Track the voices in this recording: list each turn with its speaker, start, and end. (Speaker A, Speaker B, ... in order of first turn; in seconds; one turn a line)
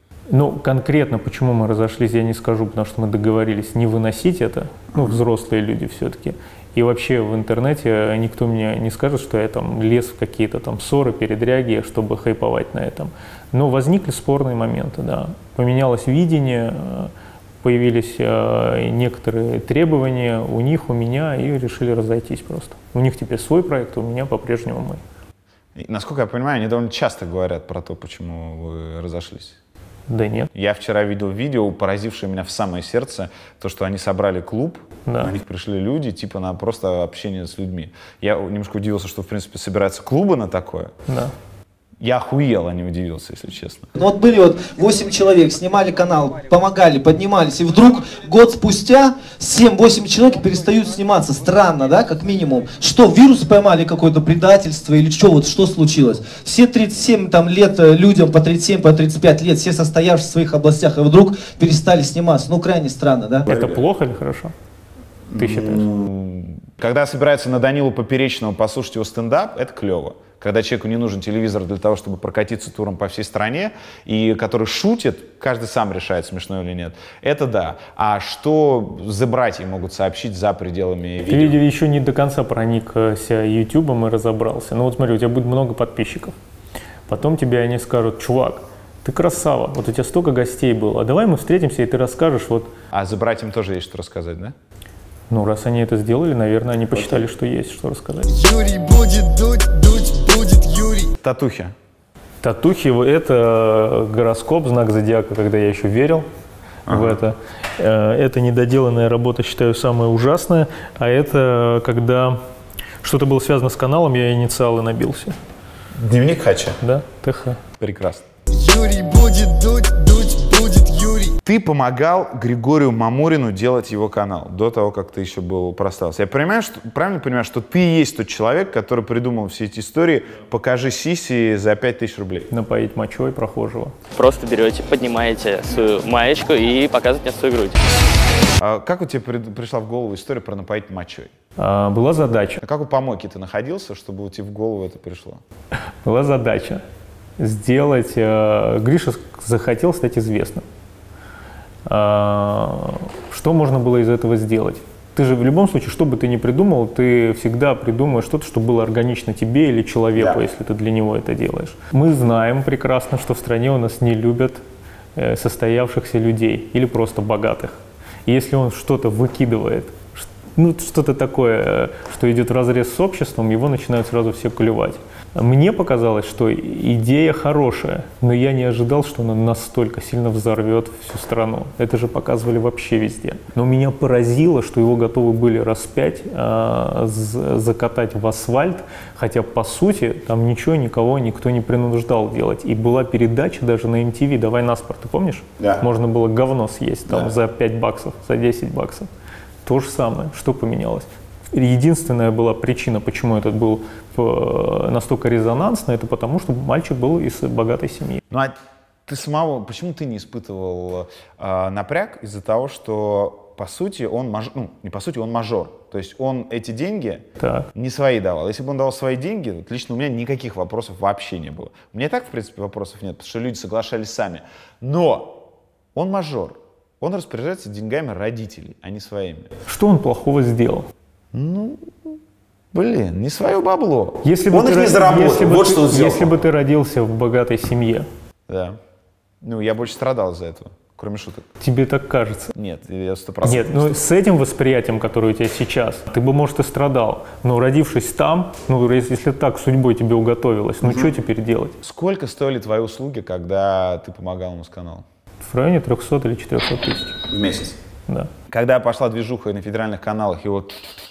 Speaker A: 0.3-25.0
Speaker B: 25.8-29.6
Speaker A: 30.1-30.5
Speaker B: 30.5-40.9
Speaker A: 35.1-35.3
Speaker A: 41.1-41.3
Speaker B: 42.0-43.9
Speaker C: 44.0-63.5
Speaker A: 63.5-64.5
Speaker B: 63.5-63.8
Speaker B: 65.3-81.6
Speaker A: 65.4-65.9
Speaker A: 81.3-86.3
Speaker A: 87.1-92.7
Speaker B: 92.9-94.5
Speaker A: 95.3-98.3
Speaker D: 98.3-101.1
Speaker B: 101.2-101.7
Speaker A: 102.4-106.3
Speaker B: 106.9-107.2
Speaker A: 106.9-112.4
Speaker A: 113.0-115.4
Speaker B: 116.0-116.8
Speaker A: 116.8-117.6
Speaker B: 117.8-118.2
Speaker D: 118.5-121.4
Speaker B: 121.4-132.5
Speaker A: 132.5-133.9
Speaker E: 134.2-137.8
Speaker B: 138.6-141.3
Speaker A: 141.6-142.6
Speaker B: 142.6-145.4
Speaker A: 146.0-146.8
Speaker A: 147.4-150.7
Speaker A: 151.9-164.6
Speaker A: 165.2-199.1
Speaker A: 199.7-208.2
Speaker B: 208.3-208.6
Speaker B: 209.1-229.5
Speaker A: 217.4-217.7
Speaker A: 229.7-230.9
Speaker B: 231.3-232.1
Speaker B: 232.7-236.4
Speaker A: 234.2-238.1
Speaker B: 238.5-238.8
Speaker B: 239.4-241.5
Speaker A: 241.6-242.5
Speaker B: 242.6-244.0
Speaker A: 243.4-251.8
Speaker B: 250.8-251.1
Speaker B: 251.8-255.1
Speaker A: 255.4-257.2
Speaker B: 257.3-257.8
Speaker B: 258.5-260.8